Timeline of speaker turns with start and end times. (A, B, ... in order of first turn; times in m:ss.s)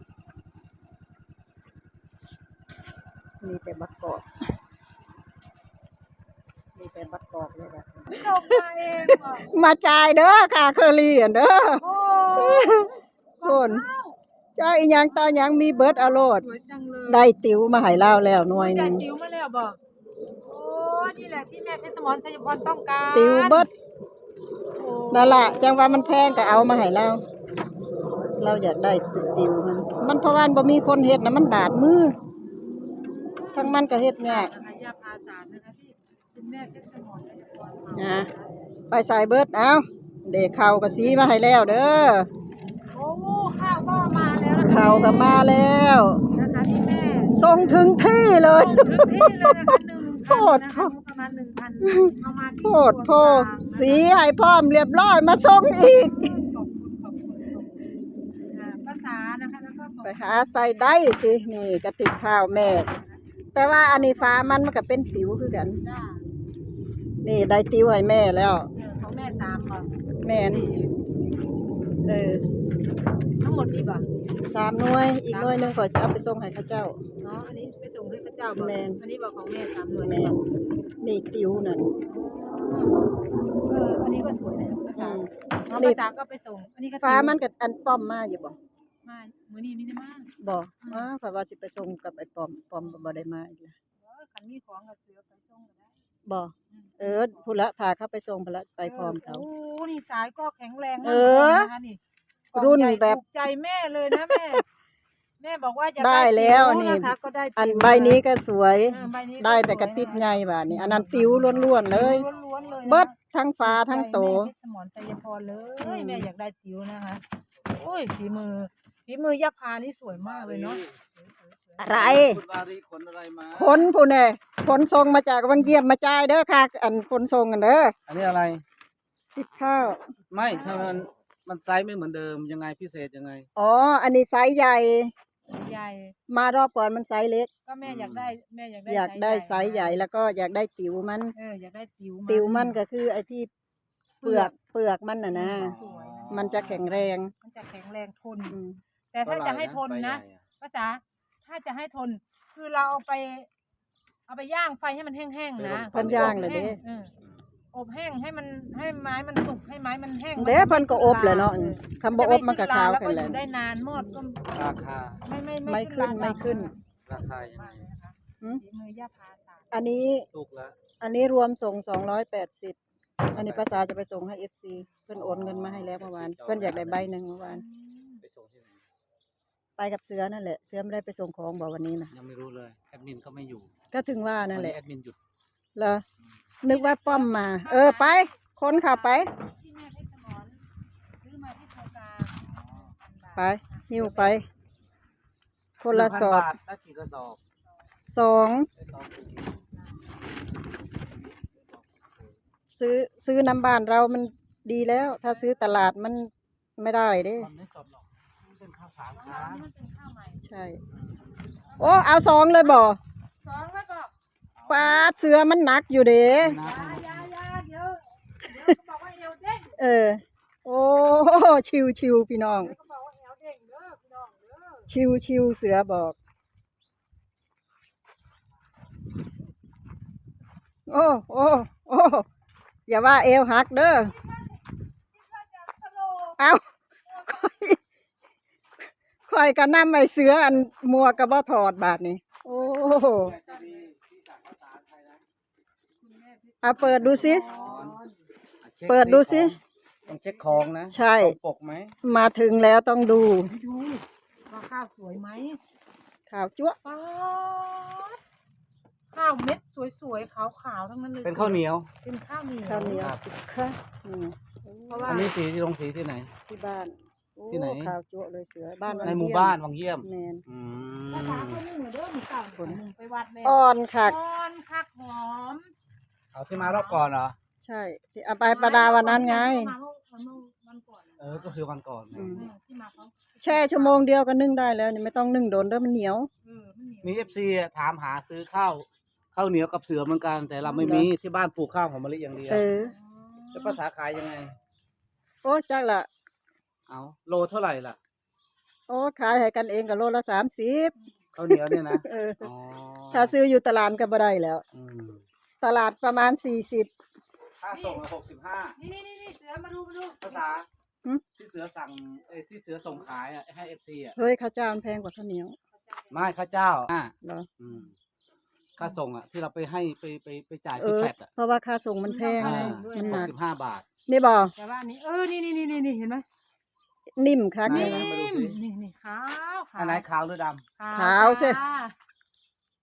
0:03.4-0:04.2 A
0:06.8-0:12.9 A
0:08.1-0:09.5 B
0:11.8-0:14.2 B
0:13.4-0:13.9 A
0:14.6-0:16.5 A
0:15.2-0:17.3 B
0:17.1-0:19.1 A
0:18.5-0:19.8 B
0:20.4-0:23.7 B
0:23.1-0:23.7 A
0:24.8-0:26.8 B
0:25.1-0:27.2 A
0:28.4-0:32.2 A
0:32.9-0:38.5 B
0:33.5-0:34.5 A
0:38.0-0:38.3 A
0:38.9-0:42.3 A
0:42.9-0:45.5 B
0:44.6-0:46.3 A
0:46.3-0:48.0 B
0:47.4-0:50.9 A
0:48.5-0:54.2 B
0:51.8-0:56.4 A
0:55.7-0:57.8 B
0:58.5-1:00.9 B
1:00.0-1:02.9 A
1:02.4-1:04.5 B
1:03.6-1:05.8 A
1:05.8-1:06.2 B
1:07.2-1:08.7 A
1:08.8-1:10.9 B
1:10.2-1:10.7 A
1:12.0-1:12.5 A
1:13.4-1:14.0 B
1:14.4-1:17.0 A
1:15.3-1:15.8 B
1:17.2-1:20.4 B
1:18.6-1:19.0 A
1:20.0-1:20.4 A
1:21.0-1:21.9 A
1:22.1-1:23.0 B
1:23.7-1:27.4 B
1:25.0-1:26.0 A
1:27.0-1:28.6 A
1:29.0-1:30.3 B
1:30.4-1:33.8 A
1:30.8-1:31.1 B
1:34.0-1:36.0 B
1:36.3-1:39.5 A
1:36.7-1:37.6 B
1:38.8-1:42.0 B
1:41.0-1:41.7 A
1:42.5-1:44.6 B
1:42.6-1:43.2 A
1:44.2-1:44.6 A
1:45.4-1:48.2 B
1:46.0-1:52.3 A
1:48.9-2:02.0 B
1:52.9-1:54.5 A
1:55.8-1:56.3 A
2:00.1-2:00.9 C
2:01.8-2:02.4 A
2:01.9-2:03.9 C
2:03.5-2:08.0 A
2:08.1-2:08.6 C
2:09.4-2:10.1 A
2:10.3-2:13.5 C
2:10.4-2:11.1 B
2:13.6-2:15.1 A
2:15.5-2:16.1 B
2:16.3-2:17.5 A
2:17.7-2:20.0 B
2:17.8-2:18.4 C
2:18.9-2:21.4 A
2:21.4-2:22.8 B
2:22.3-2:23.5 A
2:24.2-2:24.5 B
2:24.2-2:25.8 A
2:25.3-2:28.6 B
2:25.6-2:26.8 C
2:26.3-2:27.3 A
2:28.5-2:28.8 A
2:29.1-2:33.5 B
2:29.2-2:30.4 C
2:34.3-2:37.1 B
2:35.6-2:36.7 C
2:35.9-2:36.8 A
2:37.7-2:44.5 B
2:40.4-2:43.4 A
2:44.5-2:45.2 C
2:45.2-2:49.8 B
2:45.7-2:46.7 A
2:47.1-2:47.9 C
2:49.7-2:50.3 A
2:50.3-2:50.8 C
2:51.0-2:52.8 A
2:53.3-2:57.6 A
2:53.4-2:53.7 C
2:55.1-2:57.1 C
2:57.5-2:58.2 B
2:58.2-2:58.8 C
2:59.8-3:02.1 A
3:02.1-3:03.7 C
3:03.9-3:04.8 A
3:04.5-3:05.2 C
3:05.8-3:06.0 A
3:06.6-3:09.3 A
3:06.6-3:10.6 B
3:11.2-3:14.4 B
3:13.4-3:14.4 A
3:15.8-3:16.5 A
3:15.9-3:17.4 C
3:18.1-3:18.7 A
3:18.7-3:19.6 C
3:21.7-3:22.3 C
3:22.7-3:27.5 A
3:27.4-3:29.7 C
3:29.1-3:30.4 B
3:30.4-3:30.8 A
3:30.9-3:31.2 C
3:31.6-3:32.9 B
3:31.8-3:33.0 A
3:33.4-3:34.1 B
3:34.6-3:35.1 C
3:34.7-3:36.6 A
3:36.4-3:37.3 C
3:36.6-3:39.8 B
3:39.8-3:42.8 A
3:42.6-3:44.9 B
3:44.9-3:46.2 A
3:50.9-3:52.3 A
3:52.9-3:54.1 A
3:54.2-3:54.6 B
3:55.1-3:56.4 B
3:57.2-3:57.8 A
3:59.3-4:03.4 A
4:02.7-4:03.9 B
4:03.2-4:05.2 C
4:06.0-4:08.2 B
4:06.6-4:07.4 A
4:06.8-4:08.0 C
4:08.6-4:12.0 C
4:08.9-4:09.6 A
4:10.2-4:10.7 B
4:10.9-4:11.4 A
4:12.0-4:13.5 A
4:13.5-4:15.6 B
4:16.3-4:16.8 A
4:16.8-4:18.2 B
4:19.1-4:23.1 B
4:21.2-4:21.9 C
4:22.6-4:25.2 A
4:24.9-4:25.4 B
4:25.0-4:26.3 C
4:26.5-4:30.4 A
4:27.5-4:28.0 C
4:28.8-4:29.2 B
4:29.0-4:31.6 C
4:31.1-4:35.7 B
4:33.4-4:34.2 A
4:36.3-4:37.4 C
4:36.5-4:37.0 B
4:37.6-4:39.7 A
4:38.5-4:41.6 B
4:41.2-4:42.3 C
4:42.1-4:42.5 A
4:42.3-4:44.1 B
4:43.4-4:46.3 A
4:46.4-4:47.5 B
4:47.0-4:52.7 C
4:50.6-4:51.0 B
4:50.8-4:51.1 A
4:52.5-4:52.9 A
4:52.6-4:53.8 B
4:53.5-4:54.6 C
4:55.4-4:56.1 A
4:56.9-4:58.0 C
4:58.9-5:02.4 A
5:01.4-5:03.4 C
5:03.1-5:04.6 A
5:04.7-5:05.2 C
5:05.6-5:06.9 A
5:07.6-5:08.8 C
5:07.7-5:08.0 B
5:08.8-5:10.4 B
5:10.2-5:10.7 C
5:11.4-5:14.2 C
5:14.2-5:15.6 A
5:15.9-5:16.3 B
5:16.1-5:17.9 C
5:17.2-5:17.5 A
5:18.8-5:21.3 C
5:20.8-5:23.3 A
5:22.0-5:23.3 B
5:22.4-5:23.8 C
5:24.1-5:24.5 A
5:24.6-5:26.2 B
5:27.2-5:28.1 A
5:27.6-5:28.6 C
5:27.7-5:30.0 B
5:29.8-5:30.6 C
5:30.8-5:32.0 B
5:30.9-5:31.6 A